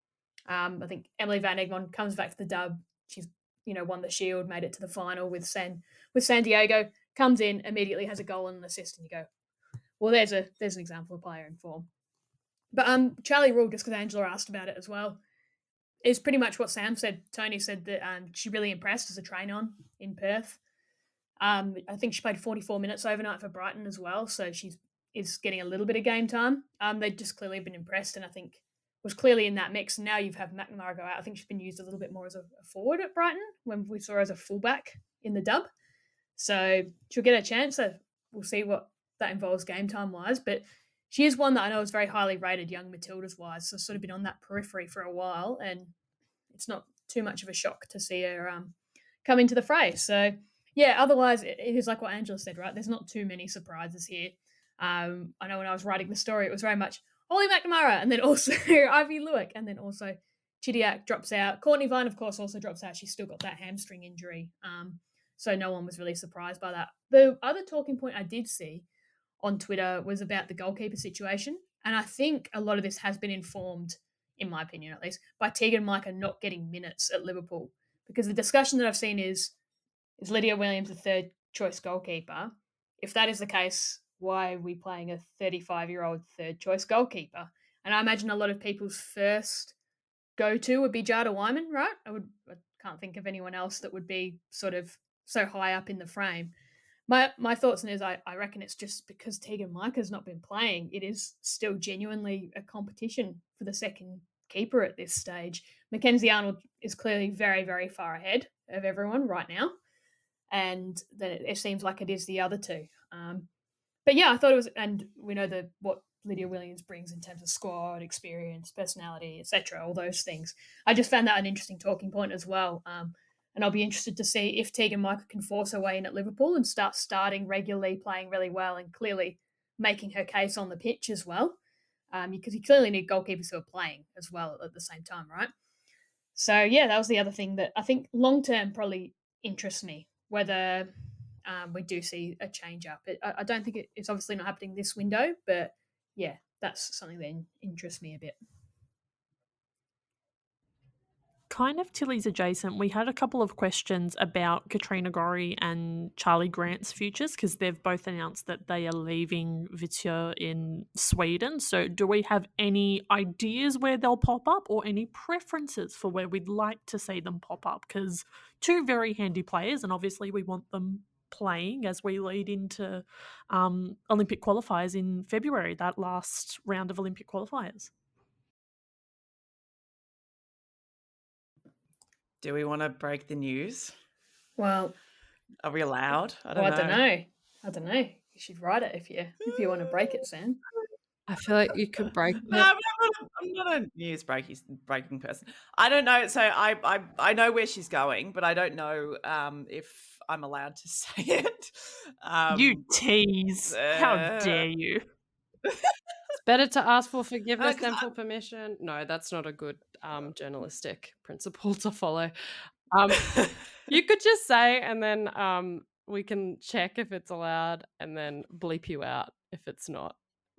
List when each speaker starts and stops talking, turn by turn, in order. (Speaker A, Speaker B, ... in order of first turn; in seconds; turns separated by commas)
Speaker A: 0.5-9.3, Speaker A: 10.0-11.9, Speaker A: 12.7-15.2, Speaker A: 16.0-20.6, Speaker A: 21.4-35.7, Speaker A: 36.4-45.9, Speaker A: 46.5-68.8, Speaker A: 69.4-79.5, Speaker A: 80.2-89.7, Speaker A: 90.4-96.5, Speaker A: 97.1-109.8, Speaker A: 110.5-113.5, Speaker A: 114.1-131.6, Speaker A: 132.1-135.5, Speaker A: 136.3-140.9, Speaker A: 141.4-148.4, Speaker B: 151.5-177.9, Speaker C: 182.4-183.9, Speaker A: 184.6-184.9, Speaker C: 185.6-187.0, Speaker A: 186.5-190.6, Speaker D: 191.3-192.7, Speaker C: 192.4-202.8, Speaker B: 202.5-205.0, Speaker C: 203.7-204.7, Speaker C: 205.7-205.9, Speaker D: 206.4-212.3, Speaker C: 207.6-208.1, Speaker D: 212.9-220.2